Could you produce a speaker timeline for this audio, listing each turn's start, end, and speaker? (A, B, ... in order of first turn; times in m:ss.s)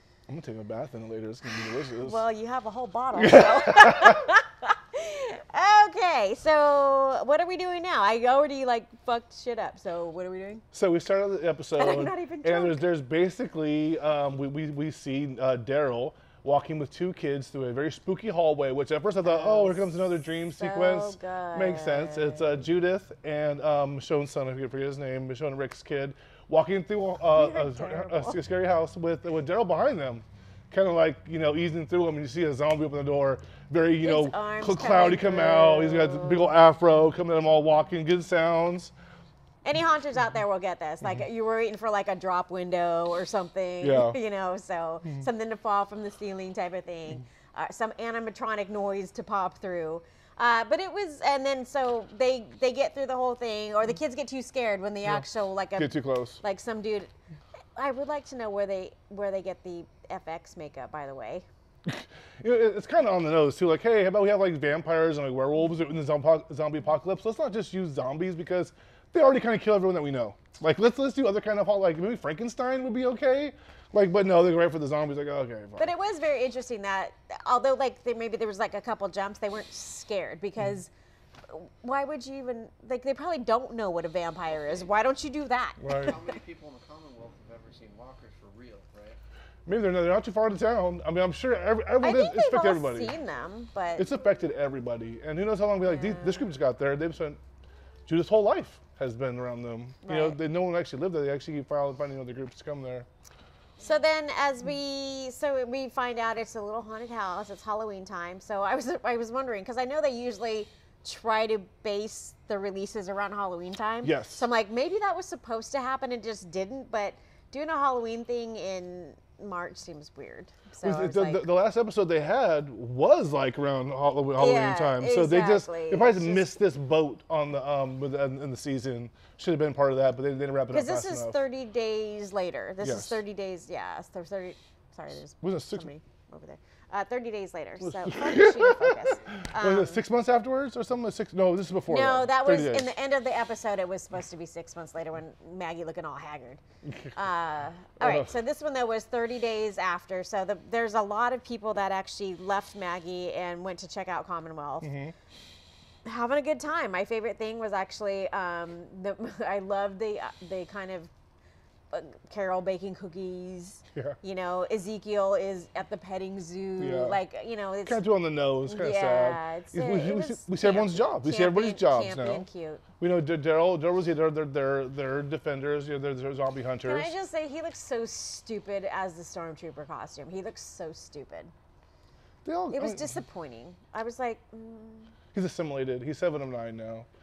0:00.3-0:02.2 A
0:02.0-0:10.6 B
0:03.2-0:04.3 A
0:10.7-0:38.9 A
0:11.8-0:12.8 B
0:19.2-0:19.9 B
0:20.5-0:22.6 B
0:27.3-0:28.4 B
0:34.0-0:36.5 B
0:39.6-0:57.1 B
0:43.8-0:44.2 A
0:55.8-0:56.4 A
0:57.8-1:01.4 B
1:01.8-1:15.9 A
1:15.8-1:20.9 B
1:21.5-1:26.1 B
1:25.8-1:26.1 A
1:25.9-1:29.2 C
1:29.6-1:33.1 A
1:32.0-1:34.1 B
1:34.0-1:37.4 A
1:35.8-1:36.5 B
1:38.0-1:43.1 A
1:40.0-1:40.4 B
1:43.8-2:01.5 B
1:54.0-1:54.4 A
2:00.8-2:11.4 A
2:04.4-2:06.5 B
2:10.7-2:20.0 B
2:12.8-2:13.2 A
2:15.4-2:15.9 A
2:17.8-2:22.9 A
2:21.9-2:26.6 B
2:26.8-2:27.2 A
2:27.1-2:34.9 B
2:28.0-2:28.3 A
2:34.8-2:35.1 A
2:36.0-2:41.1 B
2:41.9-2:48.0 B
2:46.8-2:47.2 A
2:47.8-2:52.4 A
2:48.6-2:52.8 B
2:53.0-2:57.1 A
2:56.8-3:01.5 B
3:02.4-3:03.2 A
3:02.7-3:05.1 B
3:05.3-3:07.0 A